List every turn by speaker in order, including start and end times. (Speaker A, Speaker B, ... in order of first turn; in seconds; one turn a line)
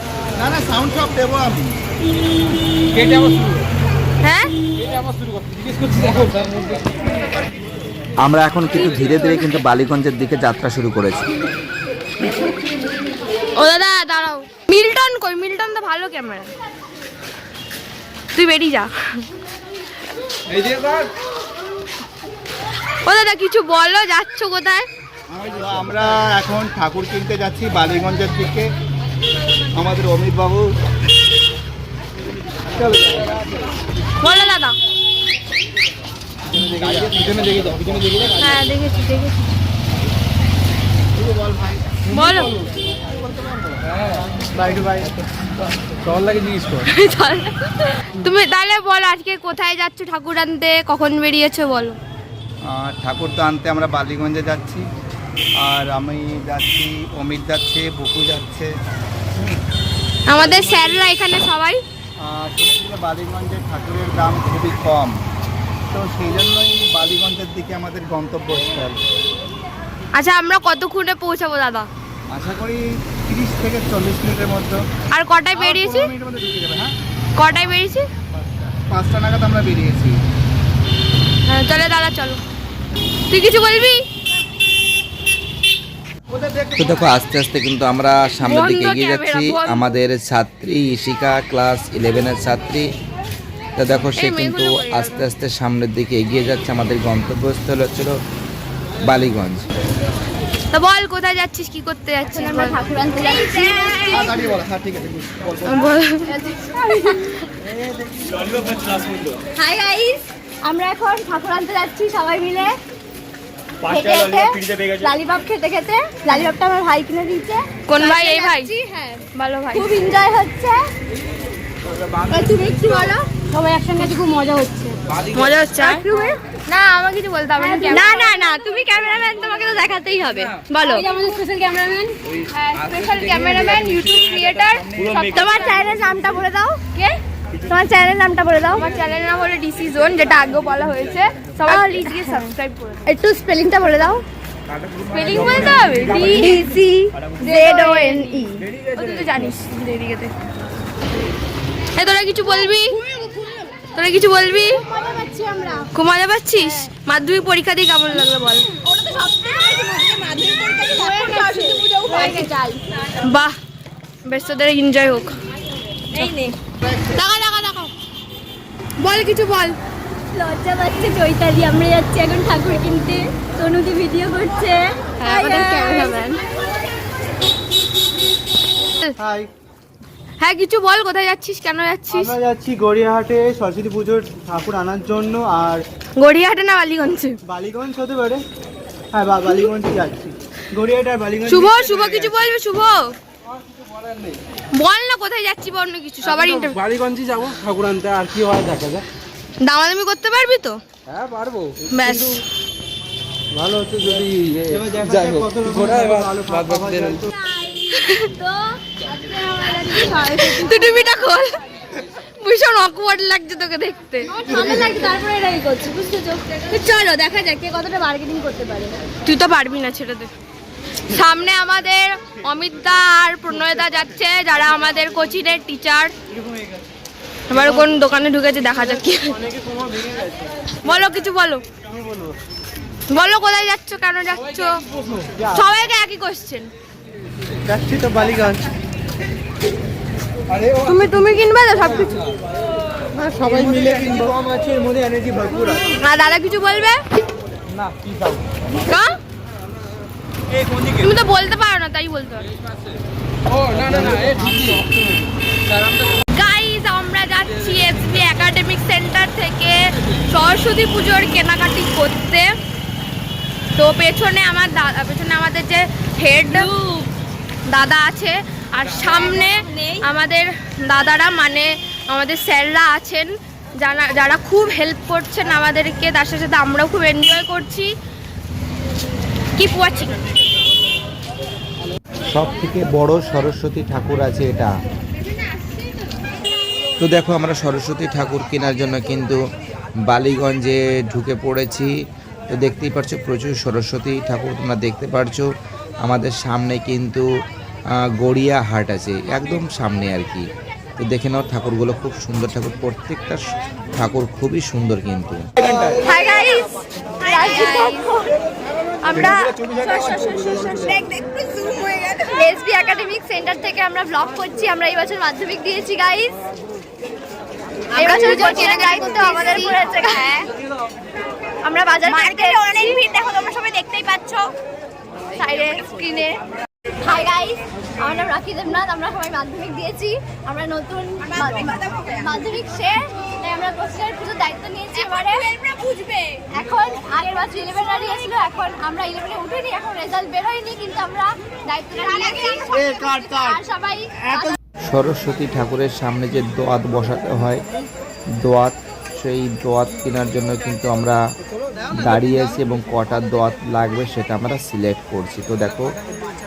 Speaker A: 0.3-1.7
Speaker B: 3.0-3.6
Speaker C: 4.2-4.5
Speaker B: 5.4-6.4
Speaker D: 8.2-11.3
Speaker C: 13.6-16.5
Speaker C: 18.3-19.2
Speaker C: 23.1-24.9
Speaker A: 25.3-28.7
Speaker A: 29.7-30.6
Speaker A: 32.8-33.4
Speaker C: 34.2-34.8
Speaker E: 36.5-37.1
Speaker A: 36.6-38.3
Speaker C: 38.4-39.5
Speaker C: 42.1-42.6
Speaker E: 44.5-45.1
Speaker B: 46.0-46.8
Speaker C: 46.9-52.0
Speaker A: 52.7-54.8
Speaker A: 55.6-58.7
Speaker C: 60.3-61.8
Speaker A: 60.4-60.9
Speaker A: 62.2-65.2
Speaker A: 65.9-69.0
Speaker C: 70.1-71.9
Speaker A: 72.3-74.8
Speaker C: 75.1-76.1
Speaker A: 75.5-76.9
Speaker C: 77.4-78.0
Speaker A: 78.7-80.2
Speaker C: 81.5-82.4
Speaker C: 83.3-84.0
Speaker A: 86.3-87.1
Speaker D: 86.8-92.9
Speaker C: 88.4-89.9
Speaker D: 93.8-98.2
Speaker C: 94.1-95.2
Speaker D: 99.0-99.6
Speaker C: 100.7-104.3
Speaker F: 102.3-104.5
Speaker A: 104.1-105.8
Speaker C: 105.6-107.4
Speaker F: 106.3-107.2
Speaker F: 109.5-112.7
Speaker F: 113.8-120.8
Speaker C: 117.9-118.7
Speaker C: 119.3-119.9
Speaker F: 122.3-125.2
Speaker C: 125.3-126.0
Speaker F: 125.8-126.4
Speaker C: 126.7-128.3
Speaker F: 127.6-132.2
Speaker C: 132.5-135.7
Speaker F: 135.0-136.8
Speaker F: 137.7-138.8
Speaker C: 138.7-143.0
Speaker F: 141.7-142.5
Speaker F: 143.1-144.2
Speaker C: 145.0-146.6
Speaker F: 146.0-148.6
Speaker C: 147.4-150.3
Speaker C: 151.9-153.0
Speaker F: 153.1-153.6
Speaker C: 153.9-154.8
Speaker F: 154.6-155.9
Speaker C: 155.9-158.7
Speaker F: 158.8-162.8
Speaker C: 161.0-162.4
Speaker C: 163.2-163.5
Speaker C: 164.2-165.4
Speaker C: 166.1-166.5
Speaker F: 166.1-166.5
Speaker C: 167.1-167.9
Speaker C: 169.0-169.8
Speaker F: 170.3-176.7
Speaker C: 175.2-176.4
Speaker E: 179.2-179.5
Speaker C: 180.4-182.3
Speaker E: 182.1-185.8
Speaker C: 186.2-187.3
Speaker E: 187.4-188.4
Speaker E: 189.1-191.9
Speaker C: 191.4-193.2
Speaker C: 194.7-196.8
Speaker B: 196.3-199.0
Speaker C: 199.6-200.8
Speaker B: 201.1-201.8
Speaker C: 201.9-202.4
Speaker E: 203.5-207.3
Speaker B: 204.2-206.2
Speaker F: 207.3-211.2
Speaker C: 207.9-208.2
Speaker C: 210.2-211.5
Speaker C: 212.4-214.3
Speaker F: 214.3-219.0
Speaker E: 214.4-215.1
Speaker C: 219.2-220.3
Speaker C: 221.1-226.1
Speaker C: 227.5-229.4
Speaker C: 230.8-231.6
Speaker C: 233.1-234.8
Speaker C: 235.5-236.7
Speaker E: 237.7-238.7
Speaker C: 240.8-242.3
Speaker E: 243.2-244.3
Speaker A: 243.5-245.8
Speaker C: 245.9-247.0
Speaker A: 247.8-248.4
Speaker C: 248.8-249.2
Speaker C: 250.9-252.5
Speaker B: 253.6-254.5
Speaker A: 253.9-254.8
Speaker C: 256.2-262.6
Speaker C: 263.8-266.7
Speaker F: 266.5-267.1
Speaker C: 267.7-277.9
Speaker F: 268.9-270.0
Speaker C: 279.6-280.1
Speaker D: 282.3-284.7
Speaker D: 287.0-289.4
Speaker D: 290.1-291.9
Speaker D: 292.5-295.5
Speaker D: 296.0-297.3
Speaker D: 298.1-300.5
Speaker D: 301.0-305.4
Speaker F: 305.9-308.4
Speaker C: 307.2-308.1
Speaker F: 309.0-316.4
Speaker F: 317.9-320.5
Speaker C: 318.0-319.8
Speaker F: 321.6-324.5
Speaker C: 322.1-323.0
Speaker F: 325.3-326.3
Speaker C: 325.5-326.2
Speaker F: 327.0-335.6
Speaker C: 335.4-336.2
Speaker F: 336.5-344.6
Speaker D: 344.9-347.6
Speaker D: 348.4-351.2
Speaker D: 351.9-355.9